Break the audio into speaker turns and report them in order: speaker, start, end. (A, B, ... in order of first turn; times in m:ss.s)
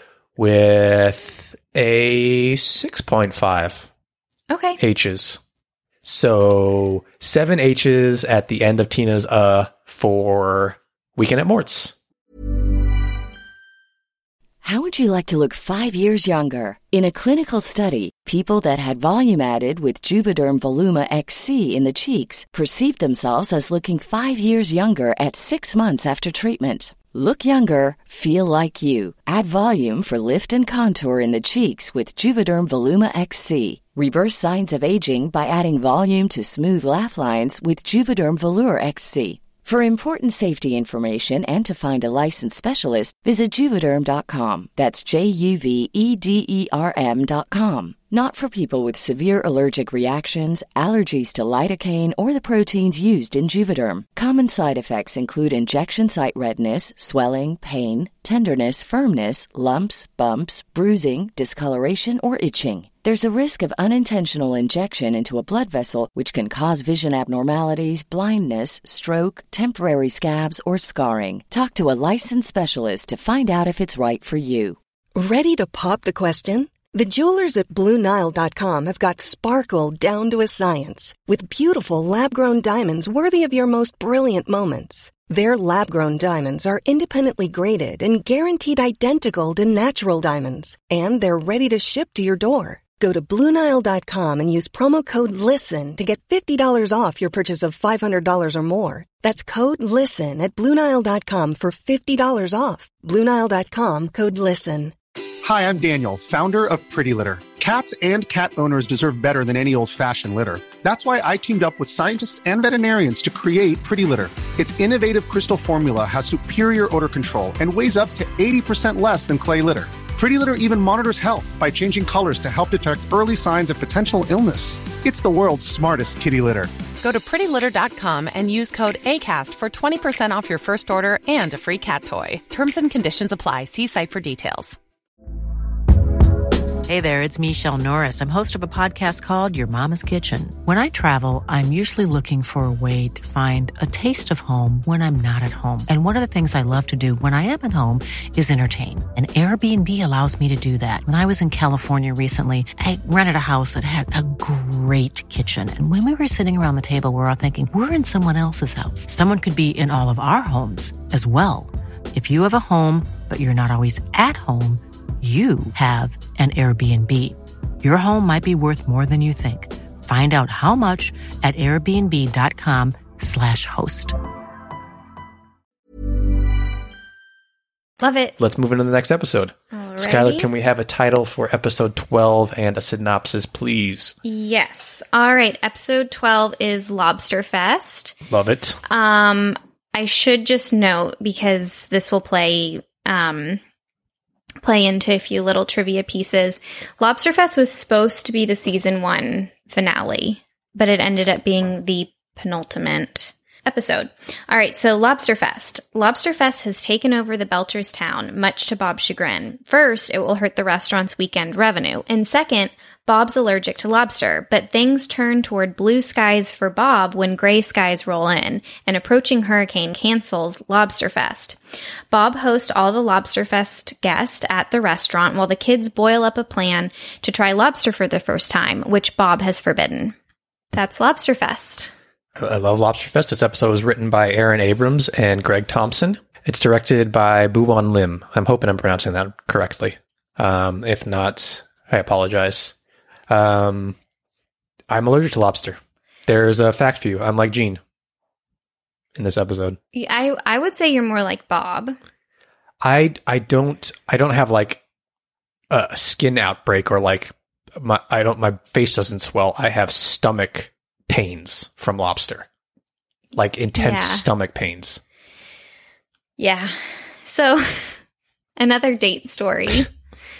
0:00.4-0:03.9 A
0:04.5-0:04.8 B
0:04.8-0:05.4 A
0:06.0-0:11.9 A
0:14.6-1:14.8 C
1:15.1-1:44.9 D
1:45.4-2:06.7 E
2:07.0-2:14.8 F
2:16.9-2:54.1 G
2:58.0-2:58.3 B
2:58.4-3:04.2 A
2:59.7-3:00.5 B
3:04.2-3:08.2 B
3:08.3-3:08.8 A
3:08.9-3:13.6 B
3:14.6-3:41.6 B
3:42.1-3:50.1 B
3:50.7-3:51.9 B
3:52.4-4:02.7 A
4:03.3-4:04.0 A
4:04.9-4:07.8 A
4:09.2-4:09.8 A
4:09.9-4:12.0 B
4:12.8-4:14.8 A
4:15.7-4:22.5 A
4:23.3-4:25.0 A
4:23.7-4:24.2 B
4:26.4-4:28.0 B
4:28.6-4:29.9 B